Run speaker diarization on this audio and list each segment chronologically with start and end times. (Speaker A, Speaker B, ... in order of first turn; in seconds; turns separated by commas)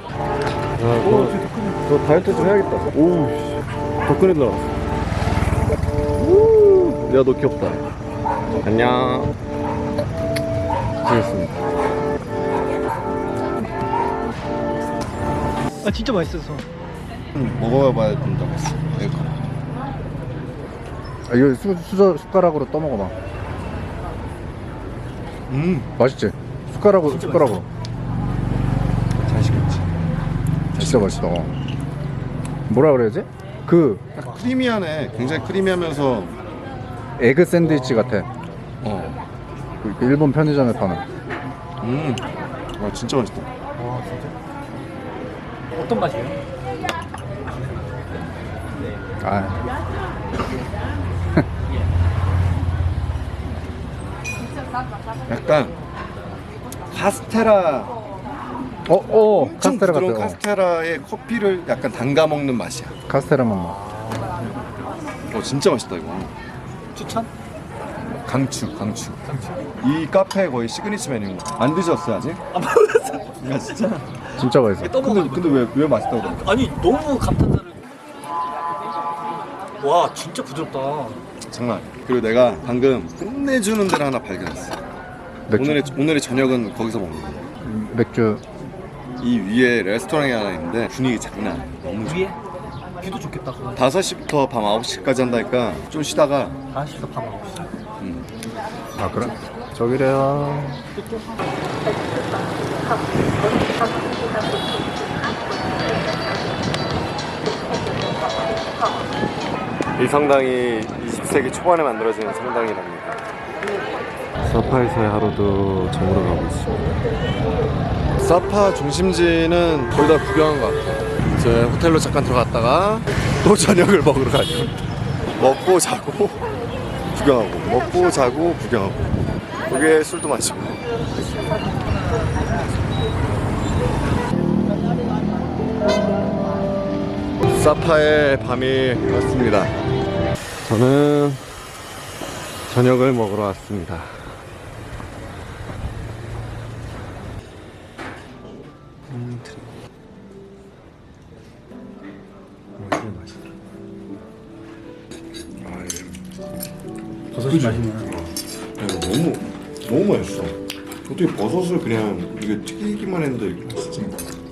Speaker A: 0.8-4.8, Speaker B: 1.0-2.5, Speaker A: 6.1-7.8, Speaker A: 8.6-9.3, Speaker A: 11.0-11.6, Speaker B: 15.8-16.6, Speaker A: 17.3-19.4, Speaker C: 21.3-23.1, Speaker A: 25.5-25.9, Speaker C: 26.0-27.7, Speaker B: 27.1-27.6, Speaker A: 29.2-29.9, Speaker A: 30.7-31.2, Speaker C: 30.7-31.5, Speaker C: 32.7-34.0, Speaker A: 34.1-36.4, Speaker C: 37.2-38.3, Speaker B: 37.6-38.0, Speaker A: 38.8-39.2, Speaker C: 39.8-41.0, Speaker A: 41.8-43.5, Speaker B: 43.8-44.4, Speaker B: 45.7-46.4, Speaker C: 49.2-49.6, Speaker A: 55.3-55.7, Speaker A: 56.9-57.9, Speaker C: 58.9-60.4, Speaker A: 59.2-63.0, Speaker C: 63.1-63.8, Speaker B: 63.6-64.5, Speaker A: 65.3-66.3, Speaker B: 66.9-67.3, Speaker C: 68.2-69.2, Speaker A: 68.3-68.7, Speaker B: 69.3-69.6, Speaker A: 69.8-72.4, Speaker B: 72.5-73.3, Speaker A: 73.4-74.1, Speaker C: 74.3-75.0, Speaker B: 74.8-75.7, Speaker A: 75.0-76.5, Speaker B: 76.2-77.9, Speaker B: 79.8-81.2, Speaker A: 81.5-84.8, Speaker C: 85.5-85.9, Speaker A: 85.5-87.5, Speaker C: 87.6-88.4, Speaker A: 89.2-92.3, Speaker B: 92.0-92.4, Speaker B: 93.0-93.8, Speaker A: 93.8-96.5, Speaker B: 96.7-97.7, Speaker C: 98.0-98.2, Speaker C: 99.0-100.8, Speaker B: 100.9-101.4, Speaker A: 110.0-113.2, Speaker A: 114.4-117.0, Speaker A: 118.2-124.7, Speaker A: 125.4-126.4, Speaker A: 127.1-129.0, Speaker A: 129.7-130.8, Speaker B: 132.1-132.5, Speaker A: 137.5-139.7, Speaker A: 140.6-141.4, Speaker A: 142.7-144.1, Speaker B: 149.1-149.6, Speaker A: 152.8-153.1, Speaker C: 155.6-156.1, Speaker B: 157.3-158.2, Speaker C: 157.4-157.9, Speaker A: 158.8-160.6, Speaker A: 161.1-164.1